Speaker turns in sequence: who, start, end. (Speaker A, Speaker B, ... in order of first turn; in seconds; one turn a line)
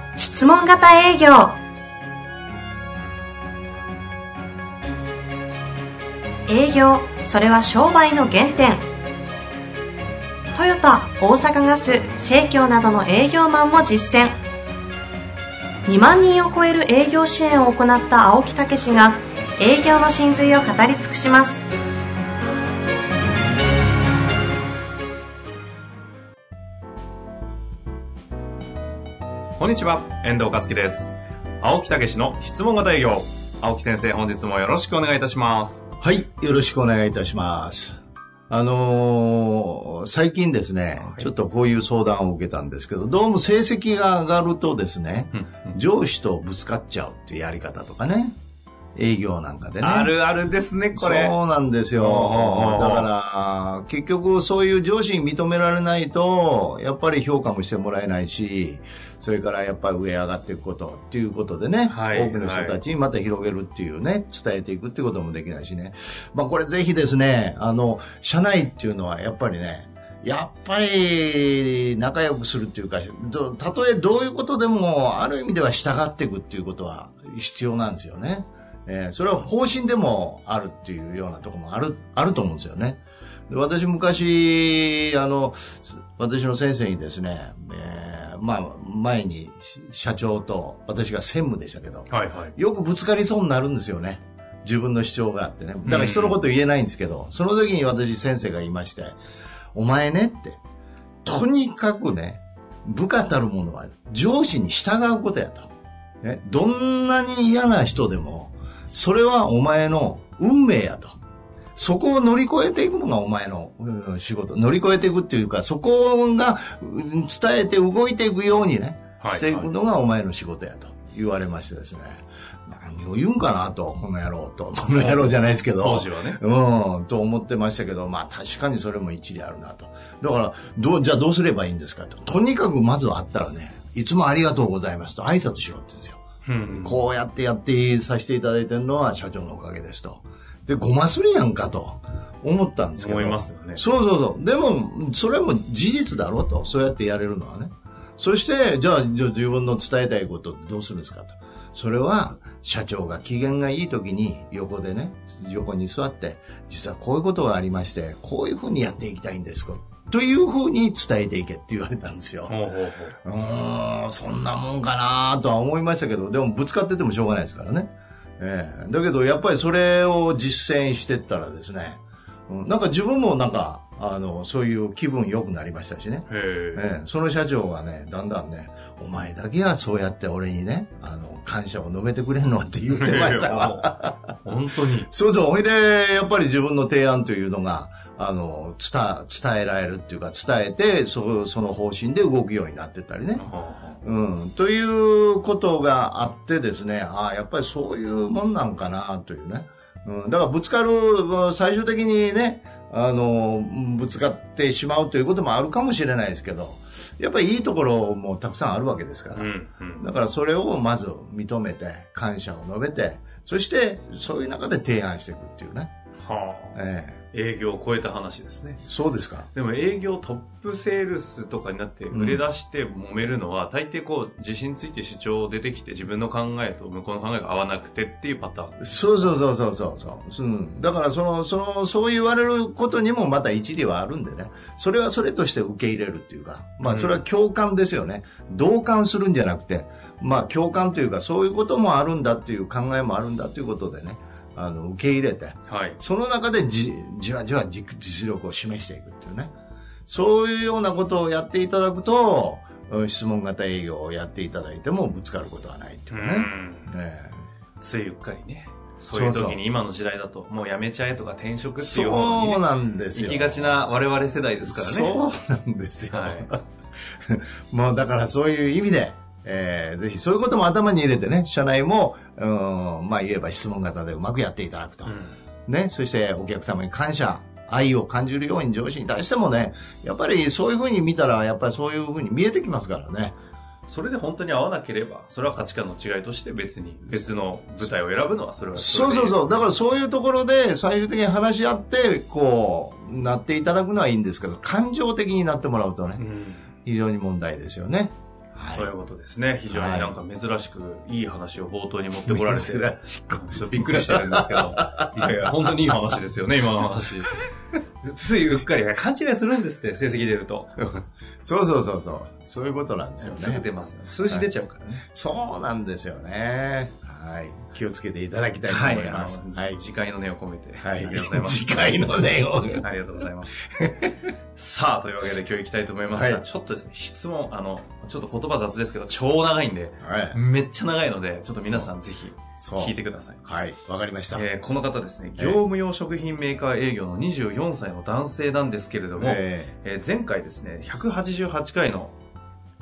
Speaker A: 0.2-1.5
Speaker A: 6.5-8.8
Speaker A: 10.6-14.3
Speaker A: 15.9-21.6
Speaker B: 29.6-35.8
Speaker C: 36.0-48.4
Speaker B: 41.0-41.3
Speaker B: 45.3-45.8
Speaker C: 49.0-50.2
Speaker B: 49.8-51.3
Speaker C: 50.9-99.2
Speaker B: 52.0-53.1
Speaker B: 61.9-62.8
Speaker B: 92.1-92.5
Speaker B: 95.8-96.4
Speaker C: 99.7-100.6
Speaker C: 101.2-105.7
Speaker C: 106.2-111.2
Speaker C: 111.8-136.2
Speaker B: 119.2-119.7
Speaker B: 124.9-126.4
Speaker B: 136.4-137.0
Speaker C: 136.7-162.6
Speaker B: 143.0-143.8
Speaker B: 162.5-163.2
Speaker C: 163.2-184.4
Speaker B: 176.3-176.9
Speaker B: 182.9-185.1
Speaker C: 185.0-193.4
Speaker B: 193.4-194.0
Speaker C: 194.0-215.9
Speaker B: 209.3-210.1
Speaker B: 216.2-216.8
Speaker C: 216.8-217.2
Speaker B: 217.3-218.8
Speaker C: 218.8-219.5
Speaker B: 219.5-228.8
Speaker C: 222.1-222.4
Speaker C: 228.8-249.5
Speaker B: 236.8-237.2
Speaker B: 245.7-246.0
Speaker C: 250.1-257.4
Speaker B: 256.1-257.0
Speaker B: 257.8-265.2
Speaker C: 259.1-259.6
Speaker C: 261.8-263.9
Speaker C: 264.6-266.6
Speaker B: 266.1-266.5
Speaker C: 267.2-283.4
Speaker B: 275.1-275.4
Speaker B: 283.9-289.7
Speaker C: 288.8-296.2
Speaker B: 296.2-296.7
Speaker C: 296.9-298.9
Speaker B: 298.7-307.4
Speaker C: 299.7-300.2
Speaker C: 302.2-305.6
Speaker B: 308.0-310.7
Speaker C: 310.8-313.6
Speaker B: 313.2-315.1
Speaker C: 315.1-319.8
Speaker B: 318.7-323.6
Speaker C: 320.8-322.9
Speaker C: 323.7-324.2
Speaker B: 324.6-333.4
Speaker C: 326.1-326.4
Speaker C: 330.0-330.4
Speaker C: 331.6-331.9
Speaker C: 332.6-334.5
Speaker B: 334.3-342.1
Speaker C: 339.2-339.7